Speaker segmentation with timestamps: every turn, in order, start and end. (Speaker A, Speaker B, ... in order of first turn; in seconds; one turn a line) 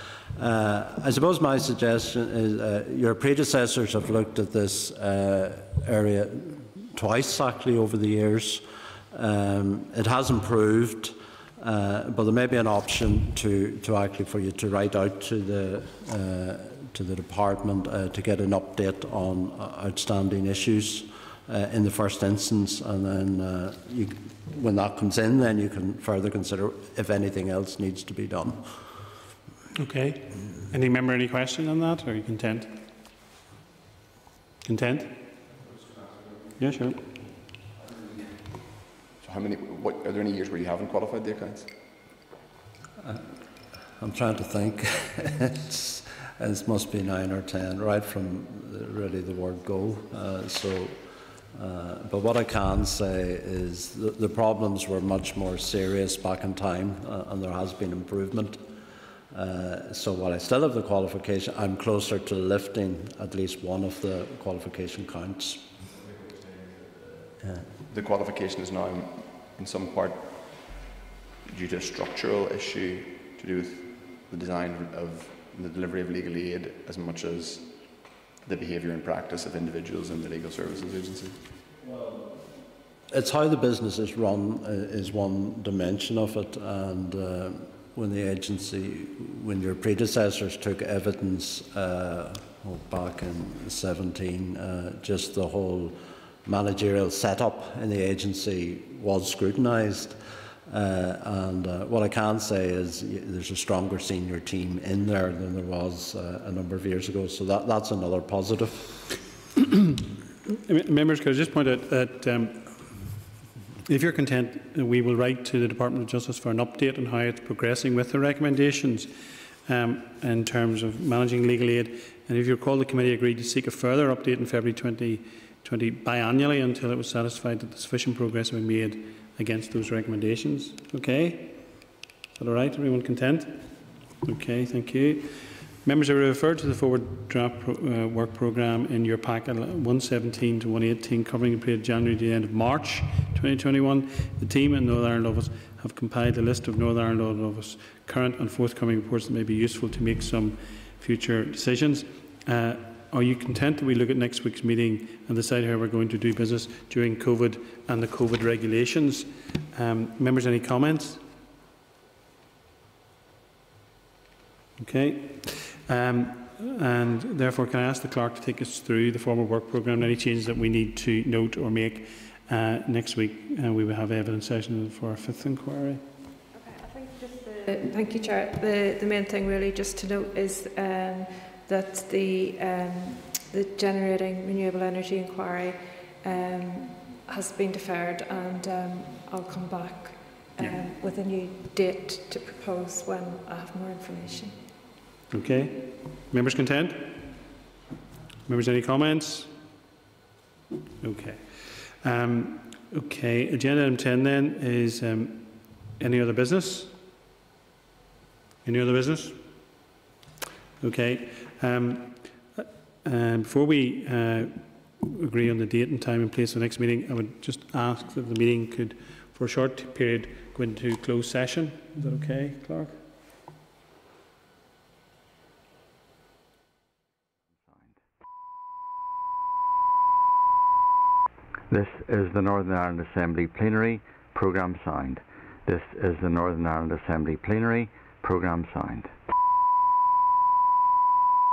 Speaker A: 0.3-28.7
Speaker B: 29.8-32.8
Speaker B: 34.6-35.1
Speaker B: 36.6-37.0
Speaker C: 39.2-41.7
Speaker A: 43.0-43.3
Speaker A: 44.0-51.0
Speaker A: 51.5-58.6
Speaker A: 59.3-65.7
Speaker C: 67.9-70.9
Speaker C: 71.5-81.4
Speaker A: 83.1-100.2
Speaker A: 100.7-109.0
Speaker B: 110.5-113.1
Speaker B: 113.8-119.1
Speaker B: 119.7-131.8
Speaker B: 132.3-161.2
Speaker B: 164.8-176.0
Speaker D: 176.5-194.6
Speaker B: 195.3-197.4
Speaker B: 198.4-199.5
Speaker B: 201.0-206.9
Speaker B: 208.6-209.4
Speaker B: 210.8-223.0
Speaker E: 231.7-239.1